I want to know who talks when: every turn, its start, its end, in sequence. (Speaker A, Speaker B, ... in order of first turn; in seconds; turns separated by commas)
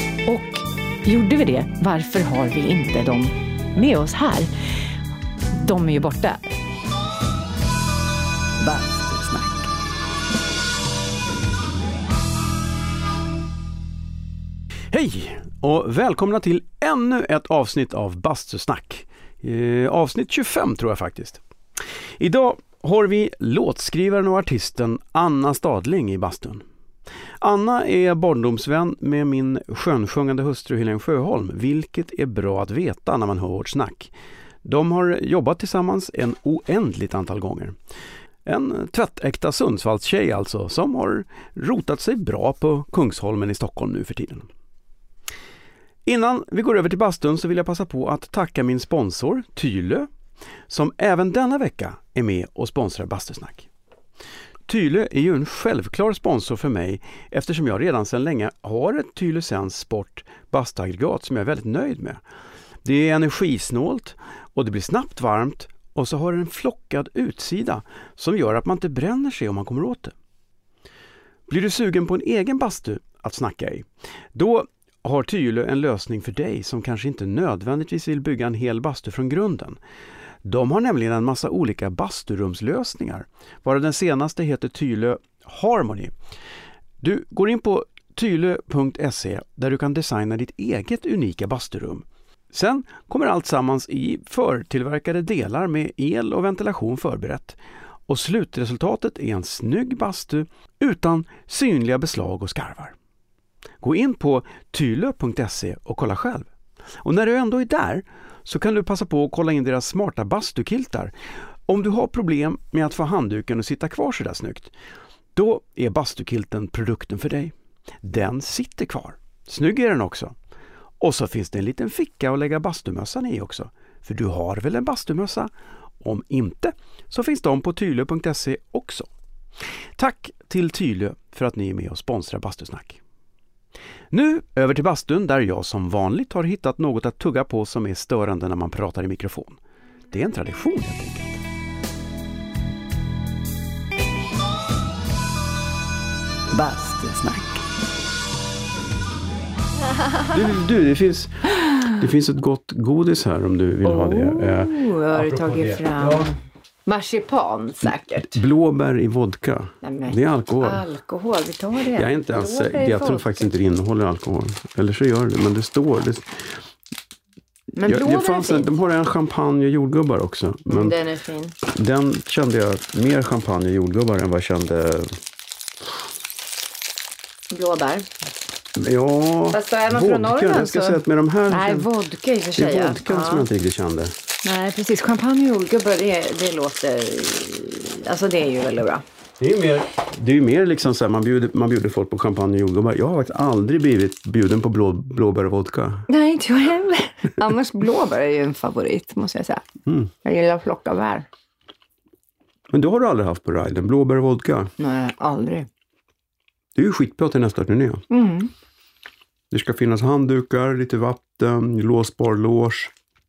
Speaker A: 0.3-4.5, Speaker A: 5.5-6.4, Speaker B: 8.6-9.7, Speaker C: 14.9-21.4, Speaker C: 22.2-26.6, Speaker C: 27.4-34.1, Speaker C: 34.6-37.8, Speaker C: 38.5-44.5, Speaker C: 46.0-50.1, Speaker C: 50.7-53.7, Speaker C: 54.7-62.2, Speaker C: 62.8-70.2, Speaker C: 71.5-79.8, Speaker C: 80.4-86.1, Speaker C: 87.0-103.0, Speaker C: 103.8-106.5, Speaker C: 107.0-111.1, Speaker C: 111.7-114.7, Speaker C: 115.3-120.3, Speaker C: 121.0-125.5, Speaker C: 126.0-129.1, Speaker C: 130.0-133.0, Speaker C: 134.1-139.6, Speaker C: 140.1-141.4, Speaker B: 146.5-147.7, Speaker C: 150.3-156.3, Speaker A: 153.8-158.4, Speaker C: 158.2-160.8, Speaker A: 159.8-163.5, Speaker C: 161.9-166.6, Speaker A: 167.7-168.7, Speaker C: 167.8-171.0, Speaker A: 170.7-171.6, Speaker C: 171.6-175.2, Speaker A: 177.5-178.1, Speaker C: 178.8-181.9, Speaker A: 179.5-183.5, Speaker C: 182.6-184.2, Speaker A: 184.4-189.0, Speaker C: 189.4-196.1, Speaker A: 196.1-199.7, Speaker A: 200.2-201.3, Speaker C: 202.7-204.7, Speaker A: 204.8-205.7, Speaker C: 206.8-208.0, Speaker A: 208.1-208.5, Speaker C: 209.5-212.9